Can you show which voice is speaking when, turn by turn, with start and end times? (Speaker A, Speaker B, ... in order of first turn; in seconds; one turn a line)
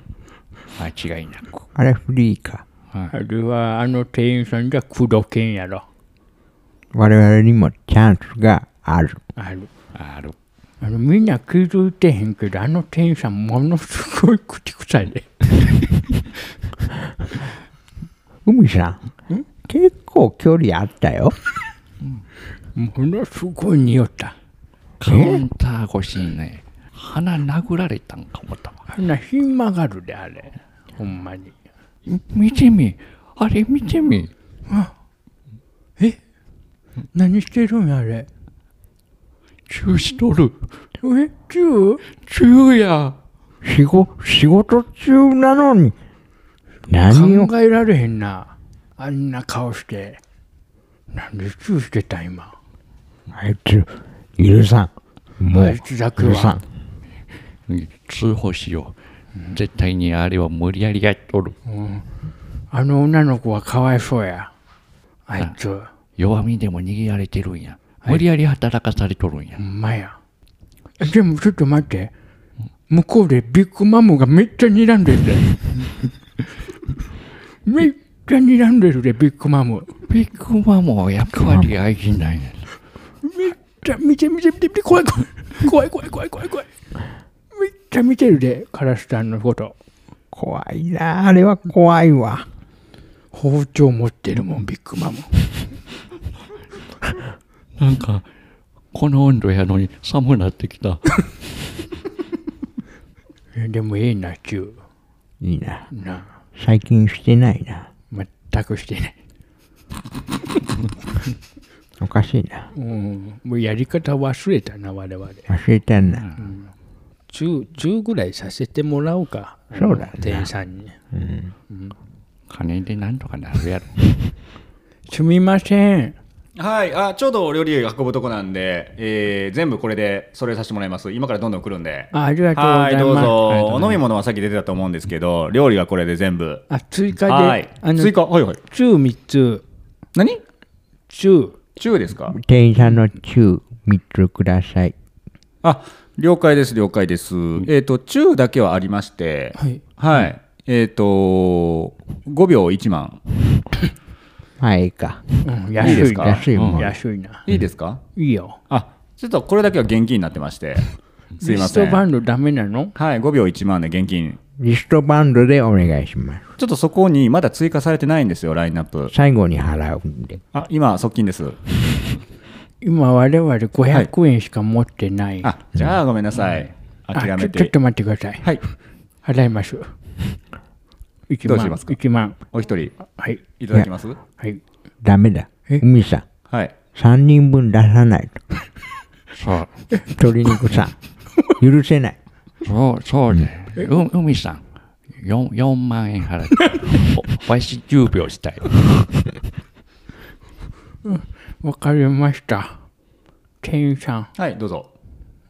Speaker A: 0.8-1.5
Speaker B: 1.7-2.6
Speaker C: 3.1-5.8
Speaker B: 6.9-9.2
Speaker C: 9.4-9.7
Speaker A: 9.9-10.3
Speaker C: 10.8-15.4
Speaker B: 18.4-19.1
Speaker B: 19.6-21.4
Speaker C: 22.7-24.3
Speaker A: 25.0-28.9
Speaker B: 25.0-25.4
Speaker C: 28.9-31.5
Speaker A: 32.1-34.3
Speaker C: 34.7-34.9
Speaker C: 37.1-38.3
Speaker A: 39.7-40.7
Speaker C: 41.0-42.0
Speaker A: 42.2-43.1
Speaker B: 43.6-45.9
Speaker B: 46.9-47.5
Speaker C: 47.0-50.2
Speaker C: 51.1-52.5
Speaker B: 53.3-56.6
Speaker C: 55.5-56.6
Speaker A: 57.6-59.0
Speaker A: 59.5-61.6
Speaker C: 61.6-62.1
Speaker C: 62.7-64.5
Speaker C: 65.3-65.9
Speaker A: 66.2-69.6
Speaker C: 69.6-70.2
Speaker C: 71.0-72.1
Speaker C: 72.9-75.5
Speaker C: 77.6-79.9
Speaker A: 80.1-82.7
Speaker C: 83.2-86.7
Speaker C: 87.5-89.7
Speaker B: 90.3-92.5
Speaker C: 93.3-95.5
Speaker A: 97.8-98.2
Speaker A: 98.9-101.2
Speaker C: 103.5-104.8
Speaker B: 105.4-105.8
Speaker C: 105.9-106.3
Speaker B: 106.5-107.9
Speaker C: 108.1-109.2
Speaker B: 112.0-112.7
Speaker C: 112.7-115.5
Speaker B: 115.5-116.2
Speaker A: 116.1-116.4
Speaker C: 116.4-116.7
Speaker C: 117.3-120.9
Speaker B: 119.7-120.5
Speaker B: 121.1-121.5
Speaker A: 122.5-124.1
Speaker C: 125.1-126.2
Speaker D: 126.6-136.6
Speaker C: 132.1-134.0
Speaker C: 136.7-139.6
Speaker D: 137.3-138.6
Speaker D: 140.1-140.4
Speaker C: 141.1-141.6
Speaker D: 141.8-142.3
Speaker B: 142.3-144.9
Speaker D: 145.6-153.2
Speaker B: 154.6-157.0
Speaker C: 155.4-157.4
Speaker D: 155.8-156.4
Speaker A: 156.5-156.8
Speaker D: 157.5-158.0
Speaker C: 158.1-158.6
Speaker D: 158.7-160.9
Speaker D: 161.4-162.0
Speaker C: 161.4-162.9
Speaker D: 162.9-164.4
Speaker B: 164.6-166.5
Speaker D: 166.6-169.1
Speaker B: 169.1-170.4
Speaker D: 170.5-171.6
Speaker C: 172.8-175.5
Speaker D: 175.4-177.7
Speaker C: 177.1-178.6
Speaker C: 179.2-179.9
Speaker C: 181.3-182.4
Speaker D: 181.4-182.0
Speaker D: 182.5-182.9
Speaker C: 183.0-183.4
Speaker D: 183.6-184.2
Speaker B: 185.0-186.2
Speaker D: 186.5-186.7
Speaker B: 186.9-188.4
Speaker A: 189.3-189.8
Speaker B: 190.1-190.9
Speaker B: 191.5-192.2
Speaker A: 192.6-194.6
Speaker A: 195.2-199.0
Speaker C: 201.0-202.8
Speaker C: 203.6-204.3
Speaker D: 204.3-204.9